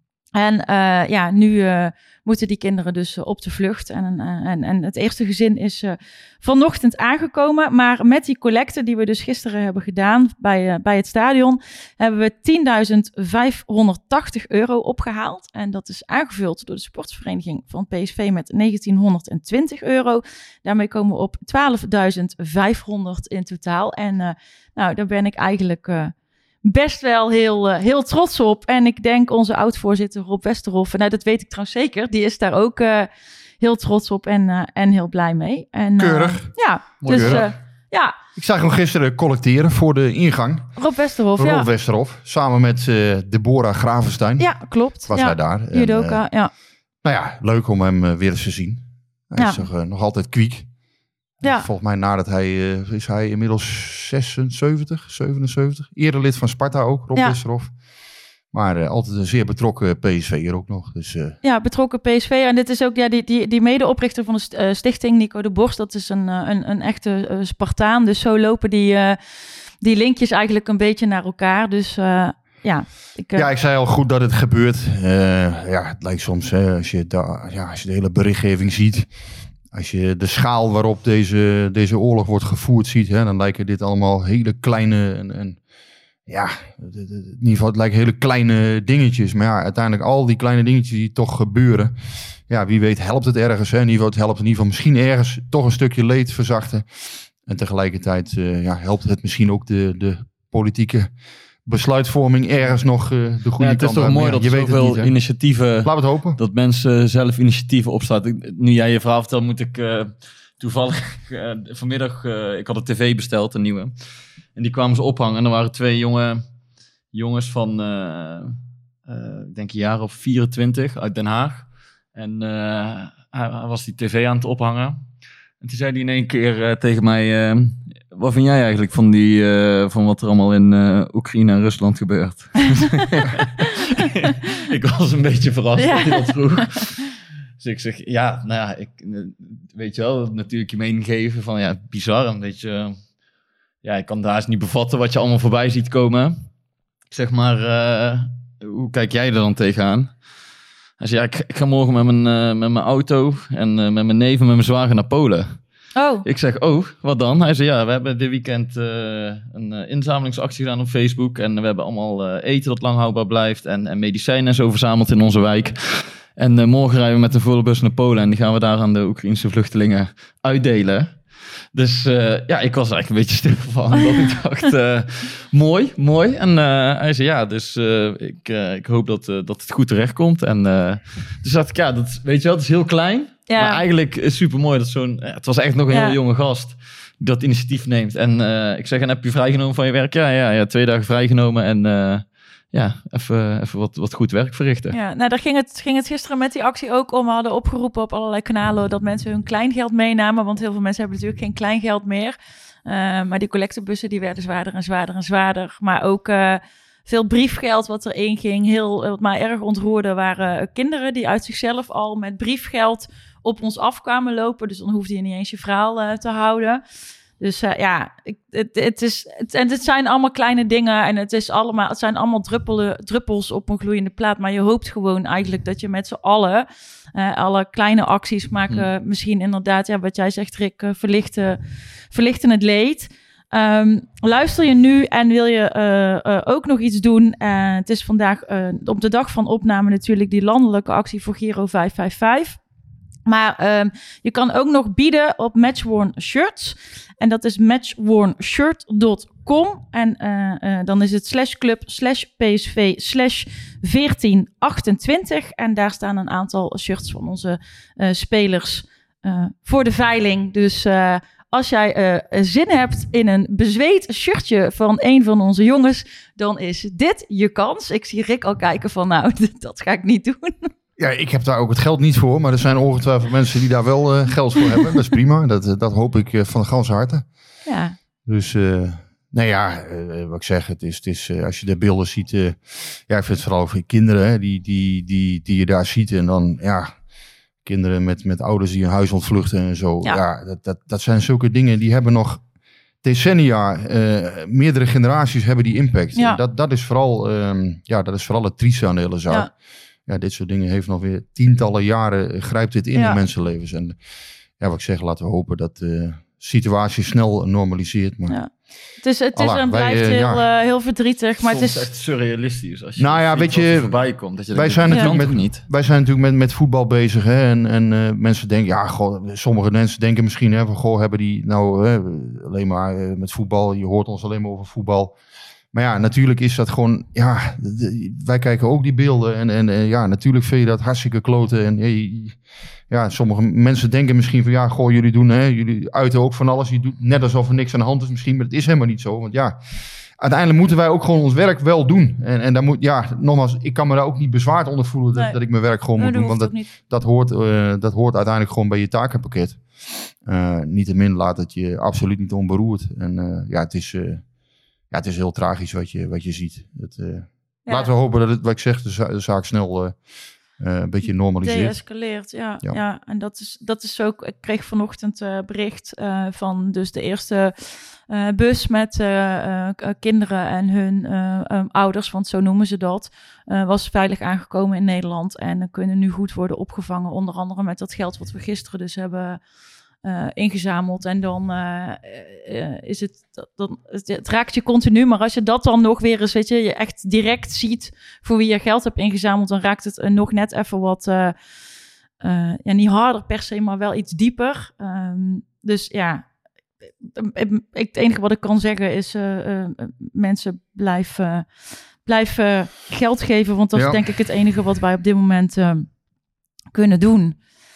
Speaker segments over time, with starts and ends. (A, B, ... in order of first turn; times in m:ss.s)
0:00.4-0:26.1 A
0:26.6-0:33.1 A
0:33.6-0:38.2 A
0:36.0-0:36.5 B
0:37.0-0:37.5 B
0:37.0-0:37.5 C
0:38.4-0:40.8 B
0:40.8-0:41.7 A
0:41.4-0:44.5 B
0:44.4-0:46.5 A
0:45.1-0:46.2 B
0:47.0-0:50.7 B
0:49.4-0:49.6 A
0:51.4-0:57.7 B
0:58.5-1:01.4 B
1:01.4-1:09.2 A
1:09.8-1:13.5 A
1:13.4-1:19.1 B
1:19.7-1:25.6 B
1:26.3-1:32.0 B
1:32.5-1:36.9 B
1:37.4-1:41.1 B
1:41.6-1:45.2 B
1:43.6-1:53.9 C
1:45.8-1:46.4 B
1:54.6-1:56.4 C
1:57.1-2:05.0 C
2:05.6-2:17.1 C
2:15.8-2:16.7 A
2:17.6-2:23.0 C
2:23.8-2:26.4 C
2:27.1-2:30.1 C
2:31.0-2:35.6 C
2:36.0-2:36.2 A
2:36.2-2:51.2 C
2:51.7-3:15.0 C
3:03.5-3:03.8 A
3:05.9-3:06.2 A
3:14.9-3:36.8 A
3:37.4-4:02.6 A
4:03.3-4:30.7 A
4:31.0-4:37.3 B
4:37.7-4:38.0 A
4:38.3-4:47.0 B
4:47.6-4:52.4 B
4:53.0-4:59.5 B
5:00.1-5:04.0 B
5:03.0-5:03.2 A
5:04.6-5:08.4 B
5:08.3-5:11.9 A
5:09.3-5:10.4 B
5:11.5-5:15.6 C
5:13.0-5:14.0 B
5:14.5-5:25.2 B
5:14.9-5:15.2 A
5:25.7-5:39.6 B
5:40.2-5:54.2 B
5:46.0-5:46.7 A
5:54.9-6:00.0 B
6:00.6-6:01.8 B
6:01.4-6:19.4 A
6:20.0-6:31.4 A
6:32.2-6:36.3 A
6:37.0-6:41.5 A
6:42.0-6:45.9 A
6:43.8-6:44.1 B
6:46.7-6:47.4 A